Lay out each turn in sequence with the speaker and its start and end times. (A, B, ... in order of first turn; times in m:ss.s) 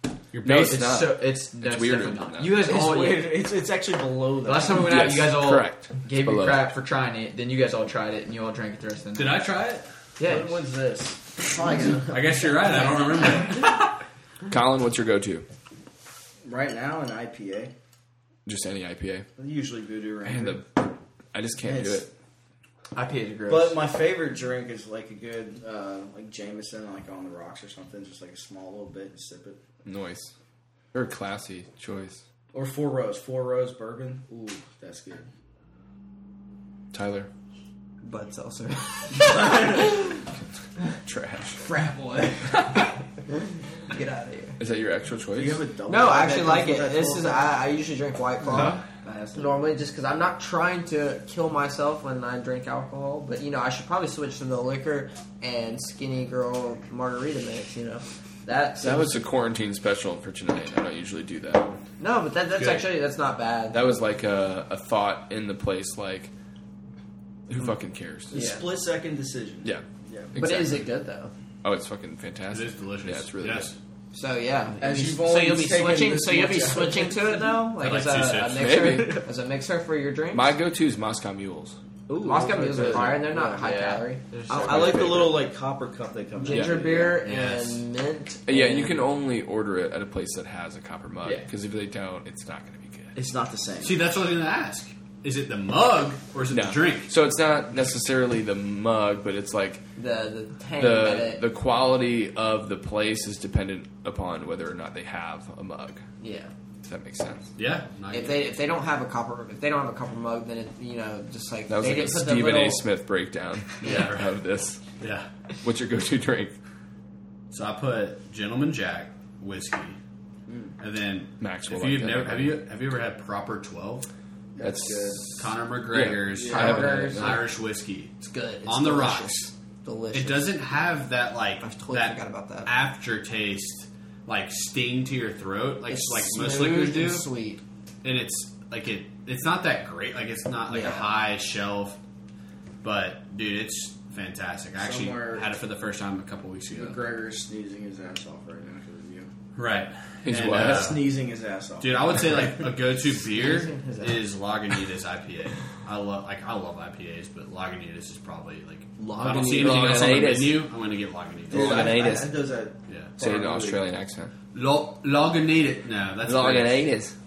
0:00.3-0:00.8 A
0:00.4-0:02.8 B
0:00.5-0:03.4 C
0:02.6-0:05.0 D
0:04.4-0:09.4 C
0:04.8-0:06.7 B
0:09.1-0:09.9 A
0:10.2-0:10.6 C
0:10.2-0:12.1 D
0:11.6-0:12.2 E
0:12.0-0:13.7 A
0:14.5-0:15.4 B
0:16.4-0:17.7 D
0:18.4-0:19.3 B
0:19.4-0:20.6 D
0:20.2-0:22.1 B
0:21.6-0:22.1 D
0:22.9-0:23.8 C
0:23.5-0:29.6 D
0:29.8-0:30.3 B
0:30.9-0:32.2 B
0:32.5-0:35.3 D
0:36.9-0:37.3 B
0:38.0-0:40.0 E
0:39.2-0:39.9 D
0:40.9-0:41.6 B
0:41.6-0:42.8 E
0:42.5-0:42.9 B
0:43.9-0:44.6 E
0:44.6-0:45.6 B
0:45.4-0:47.5 D
0:45.9-0:48.8 E
0:48.5-0:49.6 D
0:49.3-0:59.2 E
0:58.8-1:01.8 B
1:02.0-1:03.9 E
1:02.5-1:02.8 A
1:03.7-1:06.3 B
1:07.5-1:08.3 B
1:08.3-1:10.3 D
1:08.3-1:08.6 E
1:09.6-1:10.9 B
1:10.4-1:11.3 E
1:11.6-1:13.7 B
1:12.5-1:13.8 A
1:14.1-1:20.5 E
1:14.8-1:17.5 D
1:17.7-1:18.9 A
1:18.5-1:19.3 B
1:20.3-1:21.8 B
1:22.1-1:23.6 D
1:22.2-1:24.2 E
1:22.5-1:25.3 C
1:24.5-1:27.8 D
1:24.6-1:25.4 B
1:26.4-1:29.0 E
1:26.5-1:26.8 B
1:28.5-1:33.2 B
1:33.2-1:34.0 D
1:33.8-1:37.1 A
1:36.5-1:39.8 B
1:40.0-1:41.4 E
1:40.8-1:46.0 B
1:46.2-1:46.5 E
1:46.8-1:47.5 B
1:47.6-1:48.4 A
1:48.1-1:52.8 E
1:51.7-1:54.8 B
1:53.8-1:54.4 A
1:55.0-1:55.3 A
1:55.6-1:56.6 B
1:57.5-2:00.0 A
2:00.5-2:00.8 D
2:00.8-2:04.1 A
2:01.4-2:02.6 B
2:04.6-2:05.3 D
2:04.6-2:07.5 B
2:05.4-2:08.1 A
2:06.4-2:06.8 D
2:06.4-2:07.4 E
2:08.2-2:10.5 E
2:08.6-2:09.5 A
2:10.1-2:17.3 A
2:11.6-2:12.7 E
2:15.9-2:17.6 E
2:18.0-2:22.0 A
2:20.7-2:21.1 E
2:22.8-2:27.0 A
2:24.8-2:25.5 D
2:26.7-2:29.3 D
2:29.6-2:31.1 A
2:30.2-2:31.0 B
2:30.5-2:32.6 D
2:31.8-2:42.0 A
2:33.2-2:34.2 E
2:39.0-2:40.3 D
2:39.4-2:40.7 B
2:41.5-2:43.8 D
2:41.5-2:42.3 B
2:42.9-2:43.1 A
2:43.2-2:44.3 B
2:44.5-2:46.9 A
2:46.2-2:47.1 B